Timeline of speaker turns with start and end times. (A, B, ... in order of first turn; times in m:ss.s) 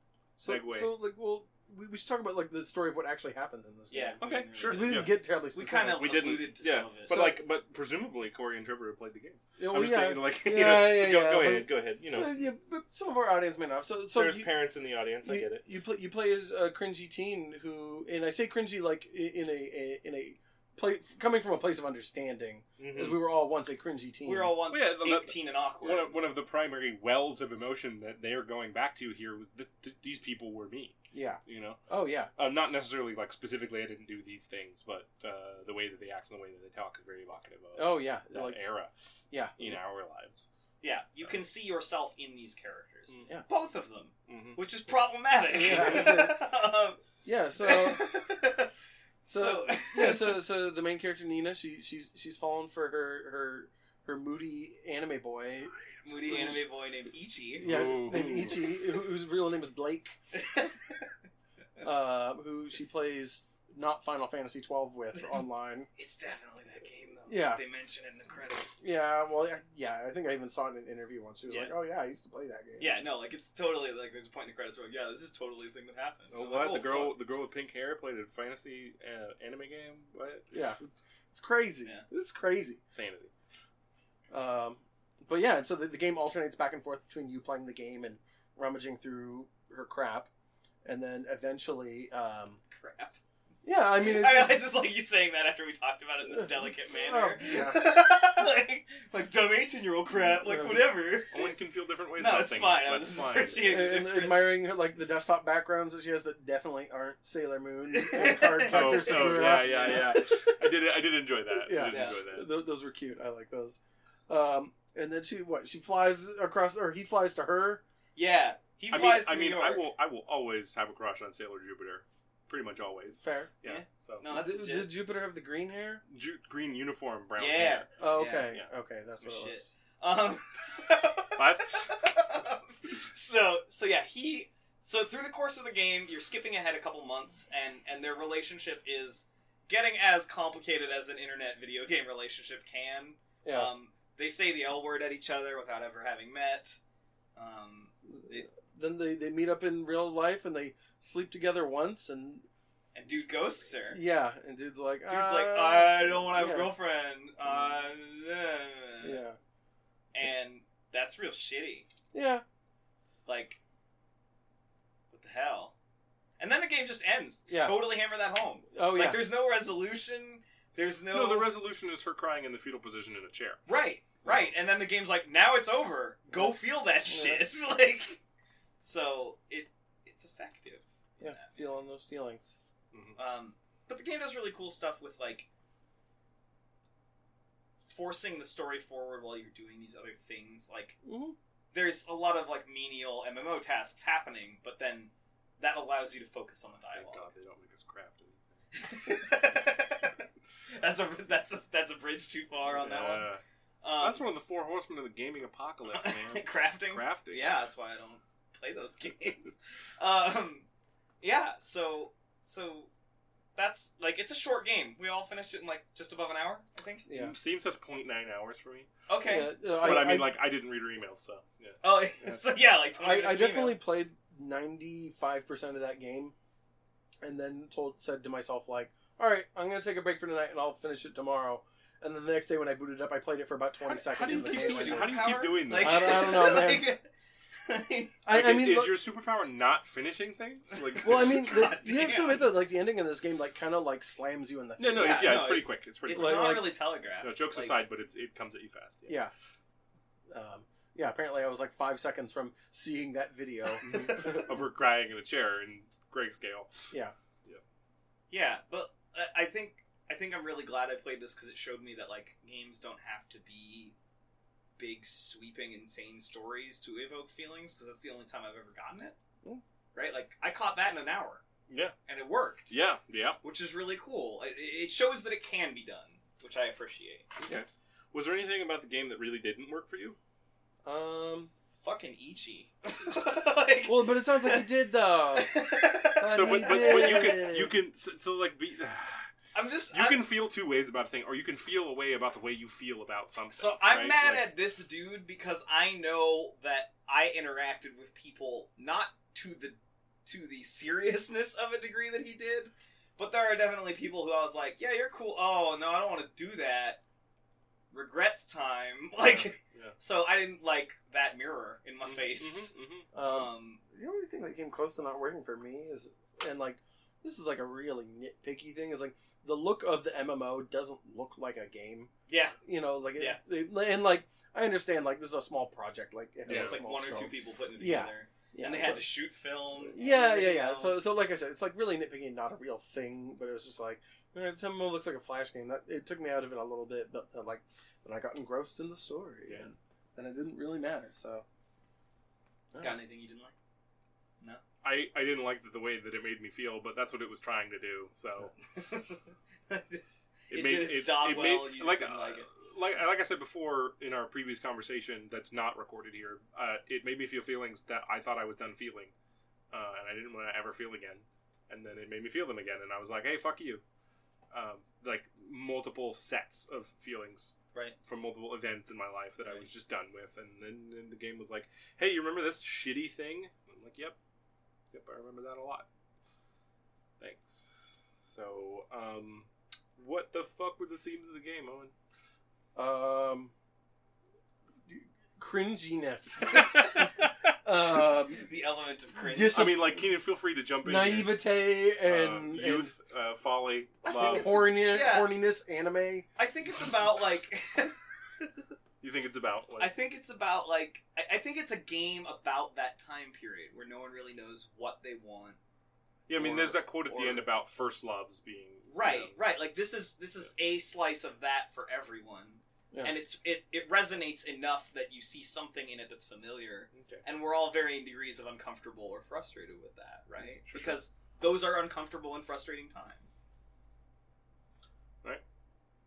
0:00.4-0:00.9 A
0:00.4-0:06.1 B
0:03.9-0:07.2 C
0:04.2-0:05.1 A
0:06.0-0:12.4 A
0:07.1-0:07.4 B
0:09.6-0:14.5 B
0:14.1-0:15.6 A
0:15.2-0:24.6 B
0:22.8-0:23.2 A
0:24.2-0:26.2 C
0:24.7-0:31.8 A
0:31.1-0:32.3 B
0:32.4-0:38.9 A
0:37.8-0:38.6 B
0:39.3-0:39.8 B
0:39.6-0:40.5 A
0:40.8-0:47.0 C
0:43.1-0:43.4 A
0:44.3-0:44.6 A
0:45.5-0:46.4 B
0:47.2-0:48.1 B
0:47.6-0:48.7 C
0:49.2-0:55.7 B
0:49.3-0:50.4 C
0:56.0-0:56.6 A
0:56.0-0:57.8 C
0:56.2-0:56.6 B
0:57.6-1:00.2 B
0:57.6-0:58.7 A
1:01.8-1:05.9 B
1:06.0-1:08.8 C
1:07.3-1:07.6 B
1:08.8-1:13.0 B
1:12.8-1:17.2 C
1:16.3-1:20.5 A
1:20.5-1:20.8 B
1:21.3-1:22.8 B
1:22.9-1:23.3 A
1:24.3-1:30.3 B
1:30.8-1:32.6 B
1:32.7-1:33.2 C
1:33.6-1:34.6 B
1:34.0-1:41.5 C
1:36.9-1:37.8 B
1:40.5-1:40.8 B
1:41.3-1:43.9 A
1:42.2-1:44.6 C
1:43.6-1:50.2 B
1:47.9-1:50.2 C
1:48.7-1:52.5 A
1:51.6-1:57.8 B
1:51.8-1:52.2 C
1:58.2-1:59.8 C
1:58.9-2:04.3 A
2:03.2-2:03.5 B
2:03.6-2:05.0 C
2:04.3-2:06.0 B
2:06.1-2:07.9 A
2:07.4-2:08.5 C
2:08.0-2:09.7 B
2:09.1-2:26.8 C
2:11.4-2:12.1 A
2:23.4-2:23.7 B
2:27.4-2:28.5 C
2:28.1-2:32.5 B
2:32.9-2:34.0 C
2:33.9-2:36.7 B
2:35.1-2:39.2 C
2:39.0-2:39.4 B
2:40.1-2:41.9 C
2:42.1-2:42.4 B
2:43.3-2:43.6 C
2:45.1-2:45.7 C
2:46.4-2:51.5 C
2:47.5-2:47.9 B
2:48.7-2:49.3 B
2:51.1-2:53.6 A
2:53.7-2:58.2 C
2:54.2-2:54.5 A
2:57.1-2:57.5 B
2:58.8-3:01.6 C
3:01.2-3:02.6 B
3:02.9-3:03.2 A
3:03.2-3:05.5 C
3:07.9-3:11.0 C
3:11.0-3:11.4 B
3:11.7-3:17.3 C
3:16.8-3:18.4 A
3:18.7-3:23.3 C
3:22.7-3:23.4 A
3:23.8-3:24.2 C
3:24.0-3:27.5 A
3:25.9-3:30.7 C
3:31.2-3:32.9 C
3:33.6-3:37.1 C
3:37.1-3:37.3 B
3:37.1-3:42.4 A
3:39.1-3:40.2 C
3:39.2-3:40.4 B
3:41.8-3:43.8 C
3:43.0-3:46.4 B
3:47.2-3:56.9 B
3:53.8-3:56.3 A
3:54.2-3:57.0 C
3:57.7-3:58.2 C
3:58.2-3:59.0 B
3:58.3-4:01.5 A
4:00.7-4:02.5 C
4:01.0-4:05.5 B
4:04.8-4:09.2 A
4:04.9-4:07.8 C
4:06.1-4:06.7 B
4:10.3-4:14.5 B
4:13.8-4:14.4 C
4:14.0-4:16.7 A
4:18.3-4:23.9 C
4:24.8-4:29.2 C
4:30.0-4:31.4 C
4:31.7-4:32.0 A
4:32.1-4:32.8 C
4:32.7-4:33.4 A
4:33.4-4:37.3 C
4:37.4-4:40.2 A
4:40.8-4:41.5 B
4:41.8-4:44.7 C
4:43.8-4:47.7 B
4:45.3-4:47.6 C
4:46.3-4:49.2 A
4:49.5-4:50.3 C
4:49.9-4:54.4 A
4:53.5-5:07.0 C
5:07.9-5:13.8 C
5:09.2-5:10.0 A
5:12.0-5:13.1 A
5:13.1-5:22.1 B
5:22.3-5:22.6 C
5:22.6-5:29.1 B
5:23.1-5:23.4 C
5:26.5-5:26.8 A
5:26.5-5:31.0 C
5:29.8-5:41.4 B
5:42.7-5:43.0 B
5:42.8-5:43.5 C
5:44.8-5:48.5 A
5:48.6-5:52.5 C
5:50.5-5:59.1 A
5:59.7-6:03.8 A
6:04.5-6:07.5 A
6:08.0-6:14.2 A
6:14.9-6:15.9 A
6:17.2-6:21.9 A
6:22.8-6:23.5 B
6:24.9-6:27.1 B
6:27.6-6:28.5 B
6:28.3-6:29.7 C
6:29.2-6:30.0 B
6:29.5-6:31.5 A
6:30.8-6:33.0 B
6:32.0-6:34.7 A
6:34.0-6:35.3 C
6:34.1-6:36.3 B
6:36.4-6:38.5 C
6:39.0-6:39.9 A
6:39.8-6:45.6 C
6:46.3-6:49.4 A
6:46.4-6:47.5 C
6:48.9-7:03.4 C
6:56.9-6:57.2 A
7:00.6-7:01.0 A